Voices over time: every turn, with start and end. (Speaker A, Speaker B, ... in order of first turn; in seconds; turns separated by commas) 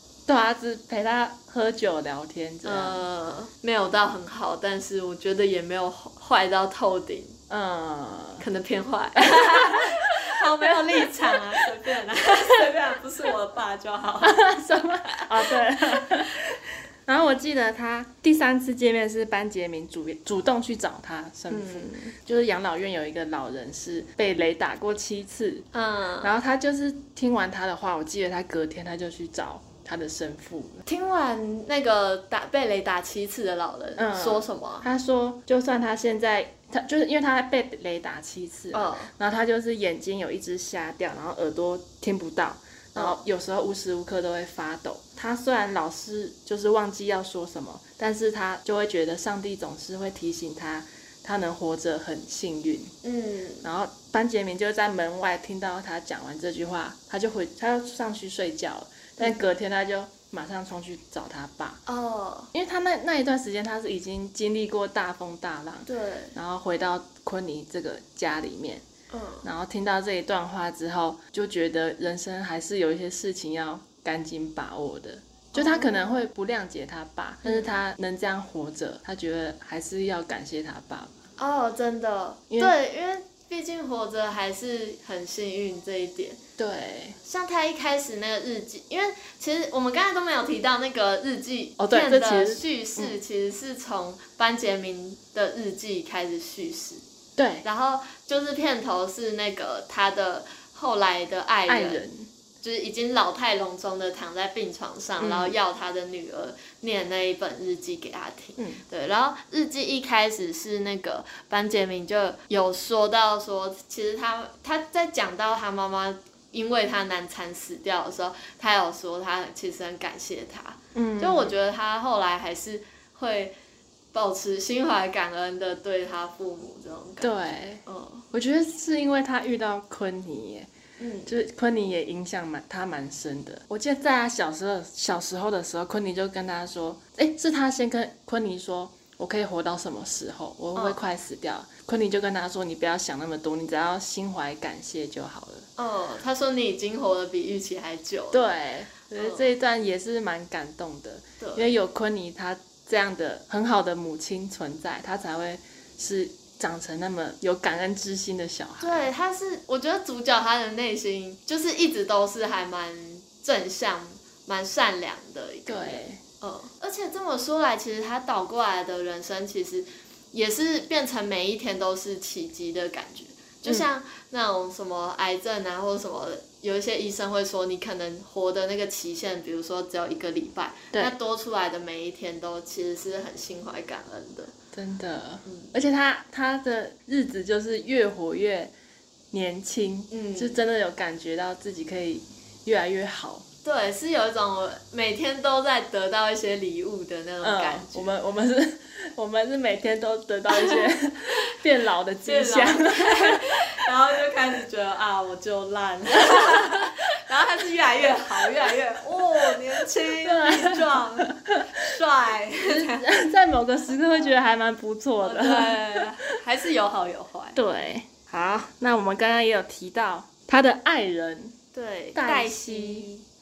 Speaker A: 0.3-3.0, Speaker B: 2.6-7.4, Speaker A: 7.5-8.4, Speaker B: 8.4-16.4, Speaker A: 9.2-12.7, Speaker A: 14.2-25.7, Speaker B: 21.5-22.1, Speaker B: 25.7-26.3, Speaker A: 26.2-30.8, Speaker B: 30.9-34.8, Speaker A: 34.0-52.9, Speaker B: 38.7-39.1, Speaker B: 53.0-53.6, Speaker A: 53.6-61.8, Speaker B: 61.9-62.5, Speaker A: 62.5-68.8, Speaker B: 65.8-66.3, Speaker B: 69.1-69.5, Speaker A: 69.4-81.1, Speaker B: 75.5-76.1, Speaker B: 77.4-77.7, Speaker B: 81.4-86.4, Speaker A: 86.6-87.2, Speaker B: 87.2-97.0, Speaker A: 91.8-93.1, Speaker A: 97.4-97.6, Speaker B: 97.6-102.0, Speaker A: 101.7-102.3, Speaker B: 102.6-123.5, Speaker A: 105.2-105.5, Speaker A: 108.6-108.8, Speaker A: 120.9-121.5, Speaker B: 124.1-127.3, Speaker A: 127.2-130.7, Speaker B: 127.8-128.2, Speaker B: 131.0-131.3, Speaker A: 131.2-145.7, Speaker B: 140.7-141.0, Speaker B: 145.8-148.4, Speaker A: 148.3-159.1, Speaker B: 149.1-149.5, Speaker B: 151.4-151.7, Speaker B: 158.8-184.5, Speaker A: 165.7-166.2, Speaker A: 184.7-188.7, Speaker B: 185.4-185.7, Speaker A: 189.3-193.4, Speaker B: 190.1-190.6, Speaker B: 193.6-198.1, Speaker A: 197.4-203.5, Speaker B: 200.5-201.5, Speaker B: 202.2-213.1, Speaker A: 206.4-206.7, Speaker A: 210.2-211.6, Speaker A: 212.7-216.1, Speaker B: 215.2-217.6, Speaker A: 217.6-221.6, Speaker B: 221.7-223.2, Speaker A: 222.1-223.1